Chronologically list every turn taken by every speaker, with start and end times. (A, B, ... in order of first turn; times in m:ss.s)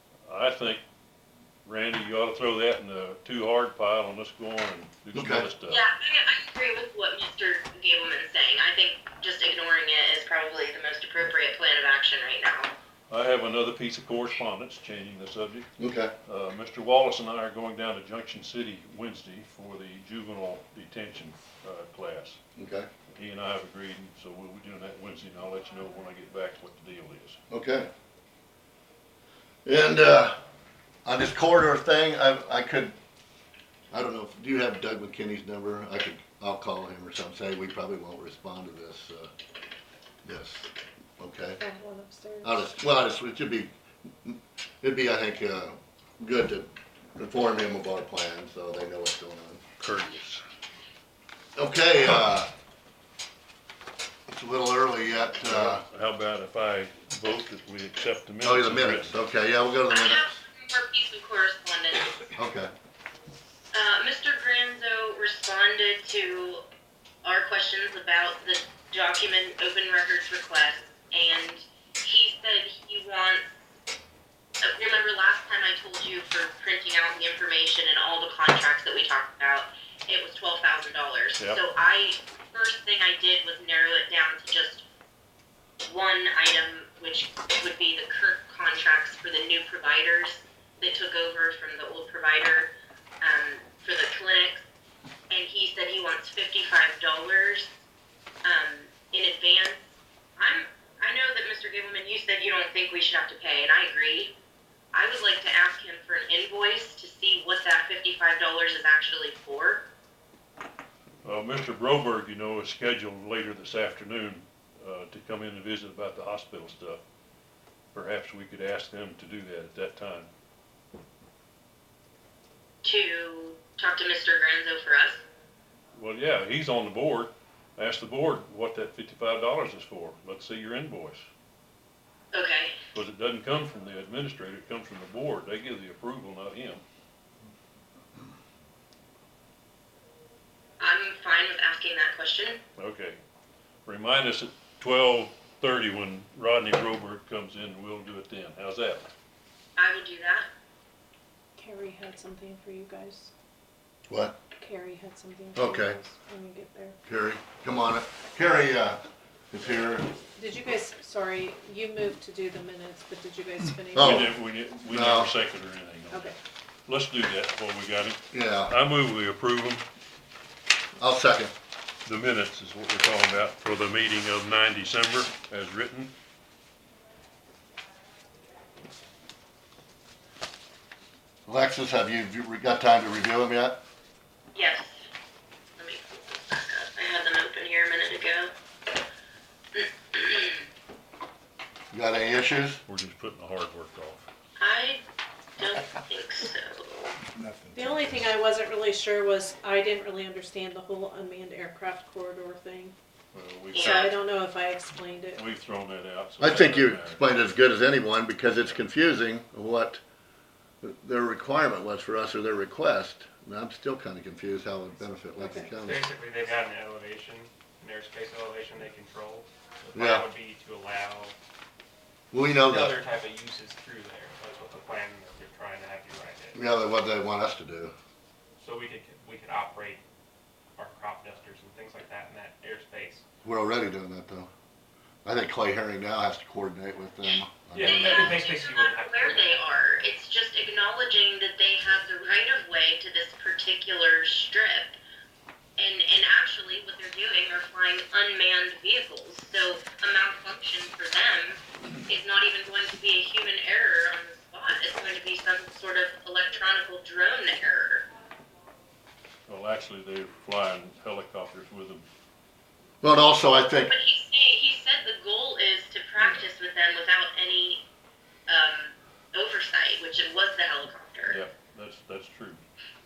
0:00.2-0:00.8 A
0:01.6-0:05.8 A
0:05.1-0:05.5 B
0:05.7-0:12.7 C
0:13.1-0:15.7 A
0:15.8-0:16.1 B
0:16.3-0:22.4 A
0:22.6-0:22.9 B
0:23.1-0:27.4 A
0:27.5-0:27.9 B
0:29.6-0:30.4 B
0:31.0-0:32.9 B
0:33.9-0:39.3 B
0:40.2-0:41.6 B
0:41.6-0:42.7 D
0:42.4-0:43.7 B
0:44.2-0:49.6 B
0:49.8-0:50.4 A
0:51.6-0:52.5 B
0:54.3-0:55.8 B
0:55.4-0:59.1 A
0:58.4-1:00.2 B
0:59.9-1:02.1 C
1:02.3-1:02.7 B
1:03.7-1:06.6 C
1:07.2-1:13.6 C
1:14.6-1:24.8 C
1:25.8-1:34.7 C
1:35.3-1:37.8 C
1:38.4-1:44.3 C
1:44.9-1:49.8 C
1:51.2-1:57.0 A
1:57.9-2:00.3 A
2:02.8-2:05.2 C
2:05.9-2:11.2 A
2:12.3-2:12.8 C
2:12.9-2:16.8 A
2:20.8-2:22.6 C
2:22.8-2:23.2 A
2:23.8-2:29.1 A
2:29.8-2:30.5 C
2:31.6-2:33.3 D
2:34.1-2:34.4 B
2:34.5-2:37.0 D
2:35.5-2:36.0 B
2:37.1-2:40.1 B
2:40.4-2:44.2 D
2:43.9-2:45.3 B
2:44.0-2:46.3 A
2:46.1-2:46.4 D
2:46.9-2:49.8 A
2:48.3-2:48.8 B
2:51.0-2:51.5 B
2:52.1-2:56.1 A
3:01.5-3:03.8 B
3:04.5-3:05.1 C
3:05.8-3:08.5 C
3:09.8-3:10.6 C
3:11.9-3:12.8 B
3:12.9-3:14.2 A
3:14.6-3:15.0 C
3:15.6-3:17.1 C
3:17.8-3:22.9 D
3:23.3-3:24.1 A
3:23.7-3:24.1 C
3:23.8-3:25.5 D
3:25.4-3:27.2 A
3:26.4-3:30.0 B
3:30.8-3:36.1 B
3:35.4-3:35.8 D
3:35.8-3:41.4 E
3:39.9-3:40.2 B
3:42.3-3:43.0 B
3:42.6-3:46.6 E
3:46.5-3:47.9 B
3:48.6-3:50.0 E
3:50.8-3:53.2 E
3:53.4-3:54.5 B
3:55.2-3:58.4 B
3:57.7-3:59.9 E
3:57.8-4:05.0 C
4:05.8-4:18.1 C
4:19.5-4:22.0 A
4:23.0-4:23.9 B
4:23.8-4:27.8 C
4:26.2-4:26.4 A
4:28.5-4:31.4 C
4:31.3-4:32.6 A